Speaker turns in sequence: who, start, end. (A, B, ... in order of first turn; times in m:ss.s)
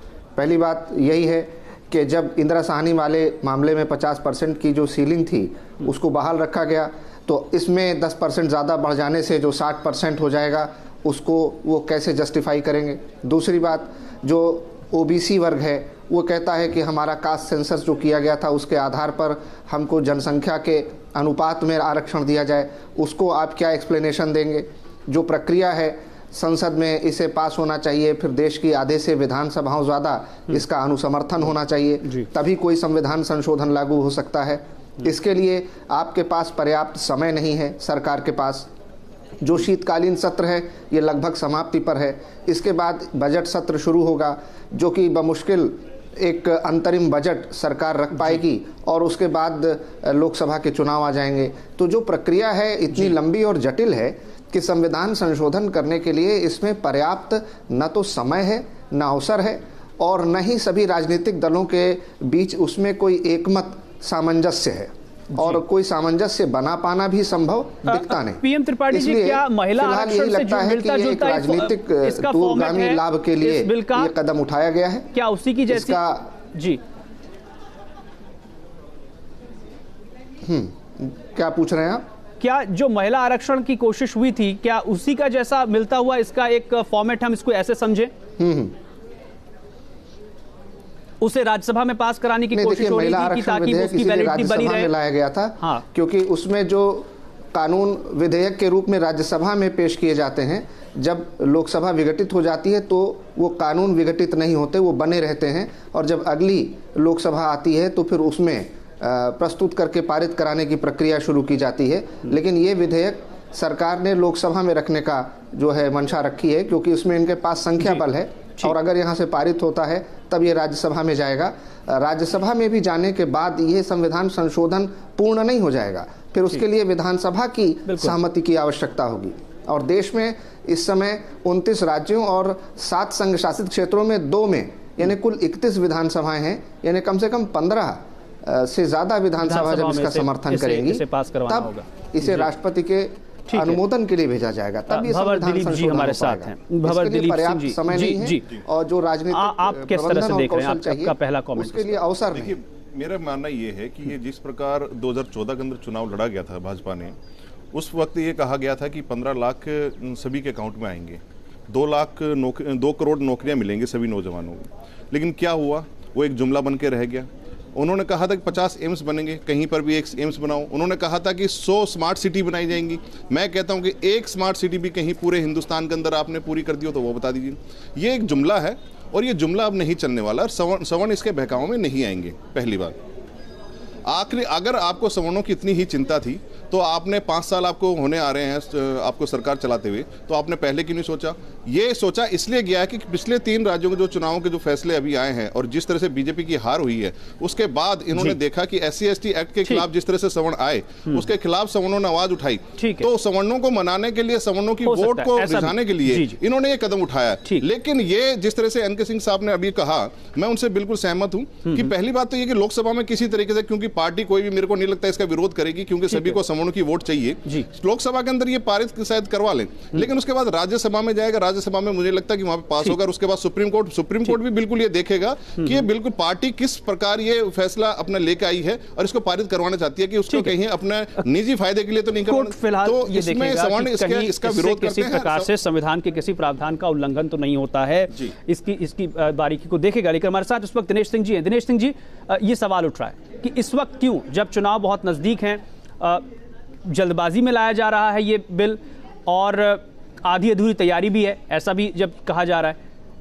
0:00.4-0:38.7 A
0:39.4-1:15.1 A
1:07.8-1:14.1 B
1:15.1-1:16.0 B
1:15.7-1:16.3 A
1:16.5-1:16.8 B
1:20.4-1:22.0 A
1:22.4-1:28.1 B
1:28.4-1:28.7 A
1:31.2-1:34.9 B
1:32.5-2:32.6 A
2:07.9-2:08.2 B
2:19.4-2:22.5 B
2:23.5-2:23.8 B
2:24.9-2:28.4 B
2:29.3-2:32.0 B
2:32.3-2:37.1 C
2:37.7-3:03.0 C
3:04.1-3:55.5 C
3:22.8-3:23.1 B
3:24.8-3:26.4 B
3:45.6-3:45.8 B
3:50.3-3:50.5 B
3:52.3-4:06.2 B
4:06.8-4:12.8 B